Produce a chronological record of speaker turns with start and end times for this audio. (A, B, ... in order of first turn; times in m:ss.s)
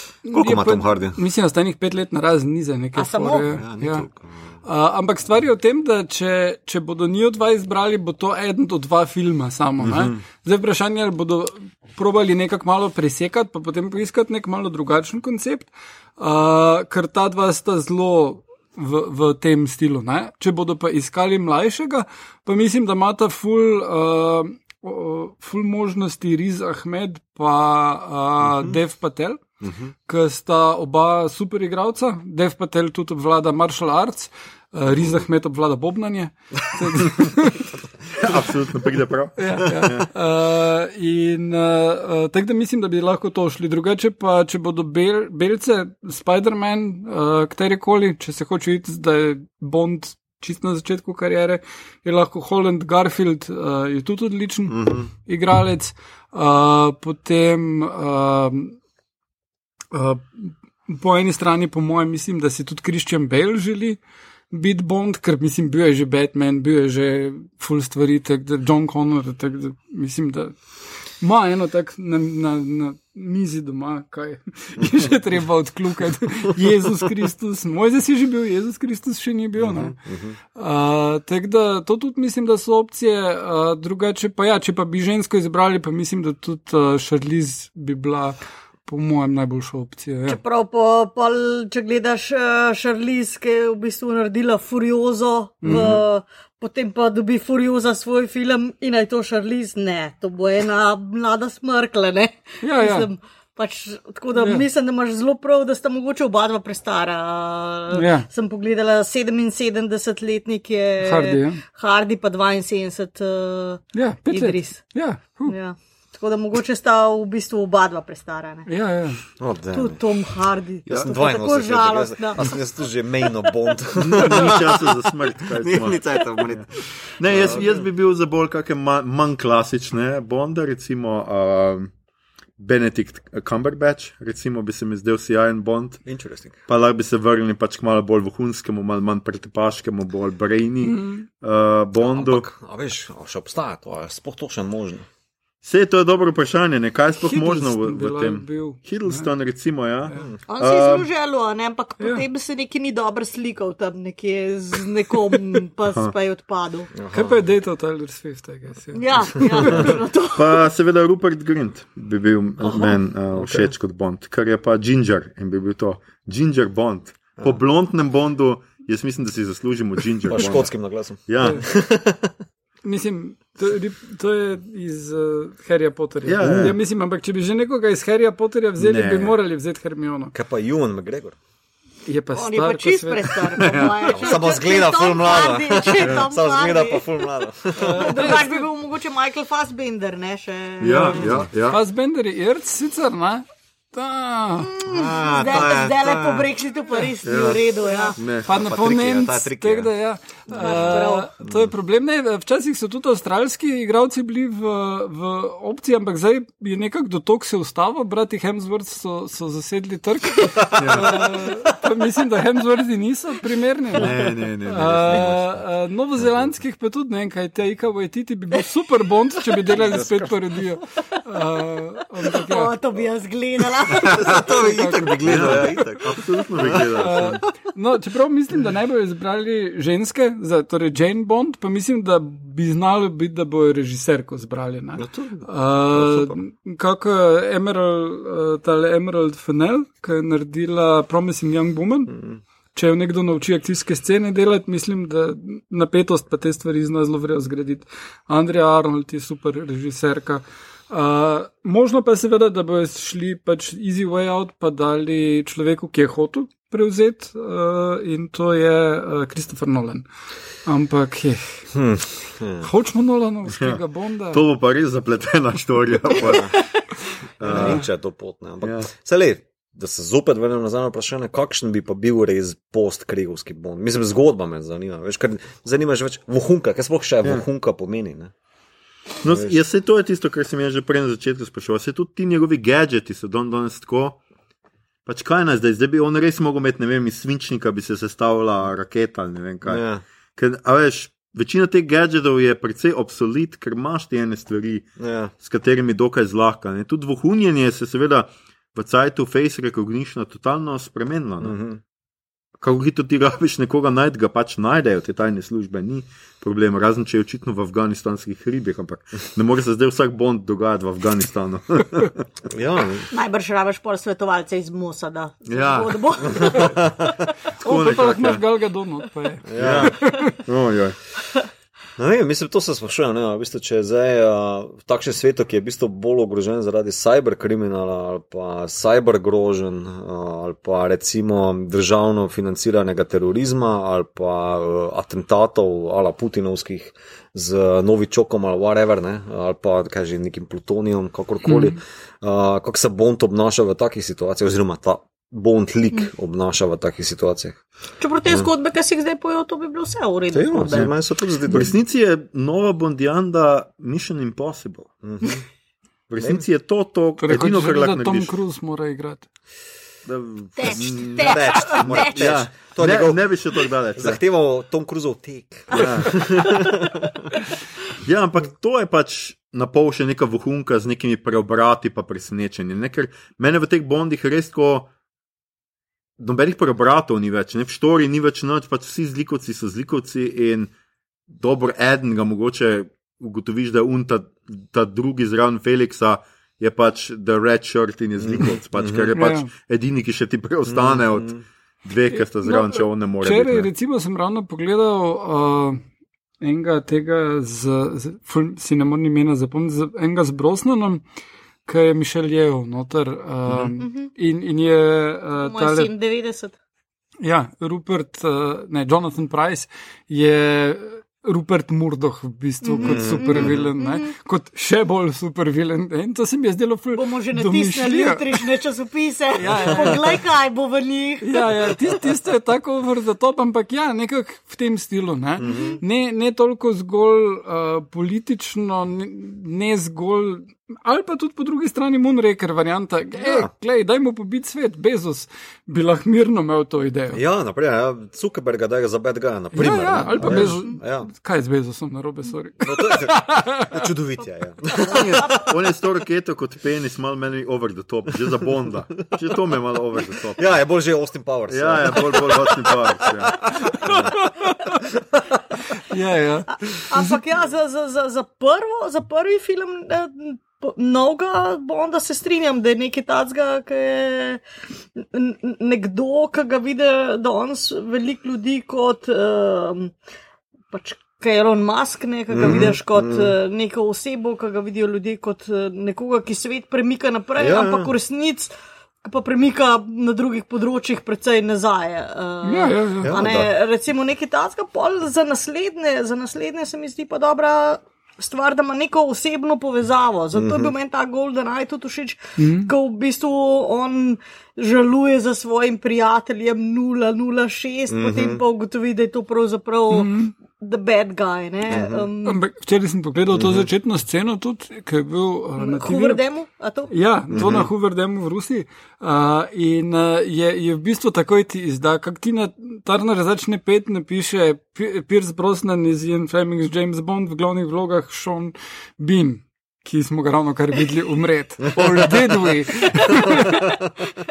0:00.2-0:04.1 A
0:00.3-0:01.2 B
0:03.0-0:03.4 C
0:03.5-0:04.5 B
0:04.6-0:29.4 A
0:09.8-0:10.2 B
0:28.4-0:28.8 B
0:29.6-0:29.9 B
0:30.1-0:38.2 A
0:38.2-0:40.1 D
0:39.4-0:58.7 A
0:54.7-0:55.1 B
0:59.9-1:04.0 A
1:04.5-1:20.0 A
1:19.6-1:20.4 B
1:20.5-1:30.4 A
1:30.3-1:54.8 C
1:35.6-1:35.9 A
1:35.6-1:36.0 B
1:42.6-1:43.1 A
1:44.4-1:44.6 A
1:47.9-1:48.3 A
1:51.0-1:51.6 A
1:53.9-1:55.5 A
1:55.5-1:58.7 C
1:58.7-1:59.2 A
1:59.4-2:00.0 B
1:59.7-2:02.5 C
2:00.9-2:07.9 B
2:04.0-2:11.9 D
2:12.6-2:16.0 D
2:16.0-2:16.6 B
2:16.7-2:22.4 D
2:20.8-2:21.2 A
2:22.0-2:25.0 B
2:25.6-2:31.0 D
2:27.2-2:29.3 A
2:30.5-2:36.9 C
2:36.9-2:37.4 B
2:37.1-2:39.9 A
2:38.9-2:40.6 C
2:40.3-2:50.7 D
2:42.6-2:43.7 B
2:50.2-2:52.3 B
2:51.3-2:51.7 D
2:52.8-3:00.3 A
2:56.2-2:56.8 D
2:58.8-2:59.4 D
3:00.3-3:01.4 B
3:02.0-3:03.7 A
3:02.3-3:07.2 C
3:03.5-3:04.0 D
3:04.1-3:08.2 B
3:07.8-3:08.6 A
3:07.9-3:11.3 C
3:10.8-3:11.8 D
3:11.0-3:11.5 B
3:11.6-3:14.7 A
3:14.6-3:18.2 C
3:14.8-3:16.5 B
3:17.2-3:17.6 D
3:17.8-3:42.7 A
3:18.2-3:18.5 D
3:18.5-3:19.9 B
3:20.5-3:21.7 B
3:20.5-3:21.3 C
3:30.7-3:31.2 D
3:33.9-3:35.3 D
3:34.8-3:35.6 B
3:39.7-3:40.3 D
3:42.3-3:44.6 C
3:44.0-3:47.3 B
3:44.1-3:45.9 A
3:45.2-3:47.4 D
3:46.8-4:02.1 A
3:55.0-3:56.4 B
4:02.1-4:02.4 B
4:02.7-4:20.0 A
4:20.6-4:21.7 A
4:21.7-4:22.7 B
4:22.6-4:24.4 A
4:23.5-4:23.8 D
4:24.3-4:26.5 D
4:26.2-4:26.6 B
4:27.4-4:38.3 B
4:27.4-4:27.8 D
4:27.5-4:27.8 A
4:28.6-4:28.9 D
4:39.2-4:44.2 D
4:39.2-4:39.6 B
4:45.0-4:49.8 D
4:49.6-4:50.0 B
4:50.4-4:54.9 D
4:55.0-4:55.3 B
4:55.4-5:01.6 D
5:01.4-5:01.8 B
5:02.6-5:12.2 D
5:12.5-5:13.1 B
5:13.1-5:17.1 C
5:15.5-5:16.6 D
5:16.4-5:16.7 B
5:17.6-5:18.4 D
5:17.6-5:20.3 A
5:19.4-5:20.0 B
5:19.5-5:21.0 D
5:22.0-5:47.6 B
5:41.4-5:41.8 A
5:48.0-5:50.9 C
5:50.3-5:51.7 B
5:51.4-5:54.9 D
5:55.0-5:55.4 B
5:56.1-5:58.3 D
5:56.2-5:56.4 B
5:57.2-5:59.3 A
6:00.0-6:04.2 D
6:00.6-6:02.4 C
6:00.7-6:03.3 B
6:04.0-6:07.3 B
6:05.7-6:06.6 D
6:08.0-6:14.9 D
6:16.2-6:20.7 D
6:21.3-6:33.7 D
6:28.2-6:29.1 B
6:29.1-6:29.5 A
6:30.7-6:31.4 B
6:32.4-6:35.8 A
6:36.4-6:41.0 A
6:41.6-6:45.9 A
6:43.8-6:44.1 C
6:45.4-6:46.5 C
6:47.2-6:58.5 A
6:52.6-6:54.1 C
6:52.8-6:53.7 B
6:56.9-7:01.8 C
6:59.4-7:00.2 A
7:01.2-7:17.2 A
7:05.4-7:05.8 B
7:05.4-7:05.8 C
7:17.1-7:21.1 B
7:19.5-7:23.8 A
7:20.2-7:20.6 D
7:22.6-7:25.3 B
7:24.8-7:30.4 D
7:24.9-7:25.4 C
7:30.4-7:32.5 B
7:31.5-7:34.0 D
7:33.4-7:34.1 B
7:35.9-7:37.2 A
7:36.7-7:44.4 C
7:45.0-7:49.9 C
7:50.7-8:22.4 C
7:52.3-7:53.3 B
7:57.4-7:57.9 B
8:02.4-8:03.2 A
8:03.0-8:03.5 B
8:10.3-8:10.7 B
8:12.4-8:12.7 A
8:17.9-8:18.4 B
8:19.9-8:20.3 A
8:21.7-8:22.1 B
8:22.2-8:26.2 A
8:23.3-8:23.7 B
8:25.6-8:26.9 C
8:26.9-8:43.6 A
8:27.3-8:27.7 B
8:41.7-8:42.2 D